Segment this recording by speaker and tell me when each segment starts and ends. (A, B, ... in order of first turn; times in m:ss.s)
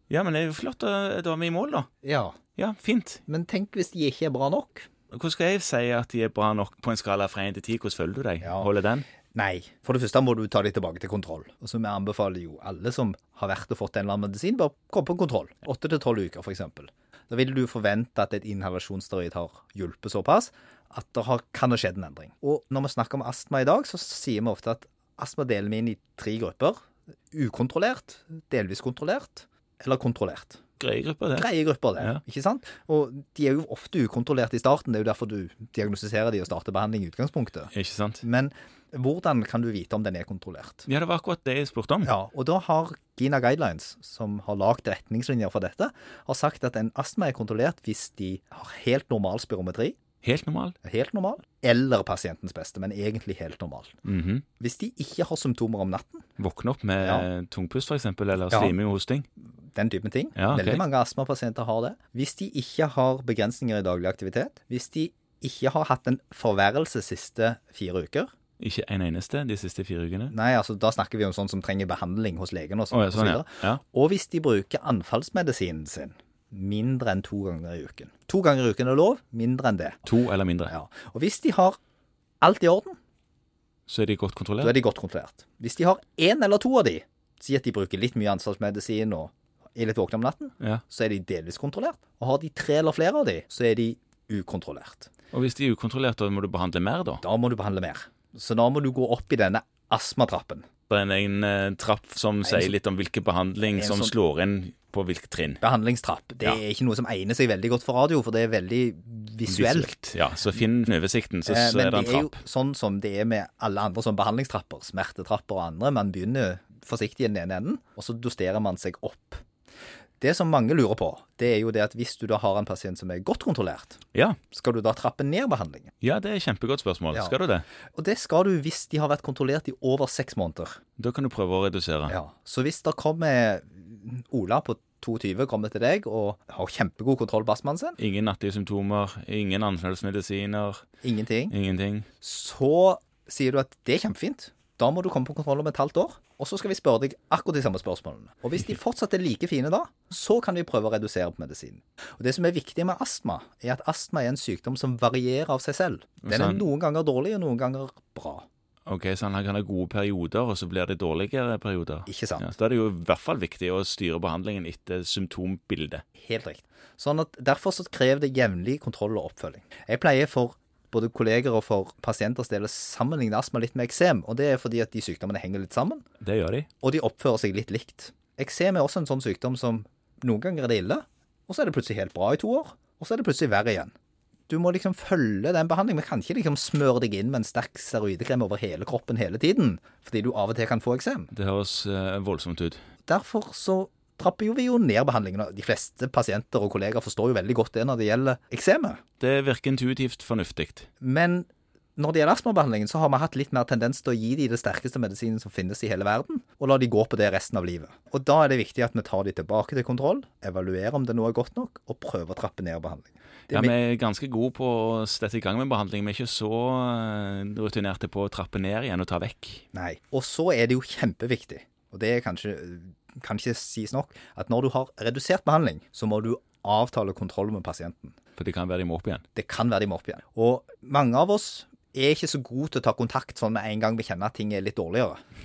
0:00.1-0:01.9 A
0:02.0-0:02.4 B
0:02.6-0:03.2 A
0:03.3-0:04.9 B
0:05.1-0:09.0 A
0:08.4-0:08.7 B
0:09.3-0:26.8 B
0:27.3-0:30.6 B
0:30.8-0:32.2 A
0:31.4-0:37.7 B
0:37.7-0:38.2 A
0:38.2-0:40.9 B
0:40.9-0:42.1 A
0:42.0-0:50.0 B
0:50.2-0:50.7 A
0:50.8-0:54.0 B
0:54.0-0:54.4 A
0:54.6-0:56.2 B
0:56.4-0:59.3 A
0:57.0-0:57.3 B
0:59.7-1:08.3 B
1:00.4-1:00.8 A
1:08.6-1:10.3 A
1:10.3-1:20.1 B
1:12.9-1:13.8 A
1:20.0-1:20.7 A
1:20.7-1:21.8 B
1:22.4-1:23.0 B
1:23.9-1:24.7 A
1:24.6-1:35.1 B
1:35.3-1:37.2 A
1:37.2-1:40.6 B
1:40.9-1:45.6 A
1:42.4-1:42.7 B
1:43.7-1:44.1 B
1:45.6-1:49.9 B
1:49.5-1:52.4 A
1:51.4-1:59.4 B
2:00.2-2:04.0 B
2:04.5-2:05.9 B
2:06.0-2:07.6 A
2:07.9-2:10.8 B
2:11.0-2:12.2 A
2:12.1-2:18.0 B
2:18.0-2:20.8 A
2:21.0-2:21.5 B
2:21.5-2:22.1 A
2:22.2-2:38.4 B
2:36.2-2:36.6 A
2:38.9-2:46.0 A
2:42.1-2:42.4 B
2:46.2-2:56.0 B
2:56.2-2:56.7 A
2:56.8-3:03.9 B
3:04.5-3:11.3 B
3:11.3-3:12.8 A
3:13.0-3:19.0 B
3:19.2-3:20.9 A
3:21.0-3:33.7 B
3:33.5-3:39.6 A
3:39.7-3:48.2 B
3:48.4-3:49.2 A
3:49.4-3:55.2 B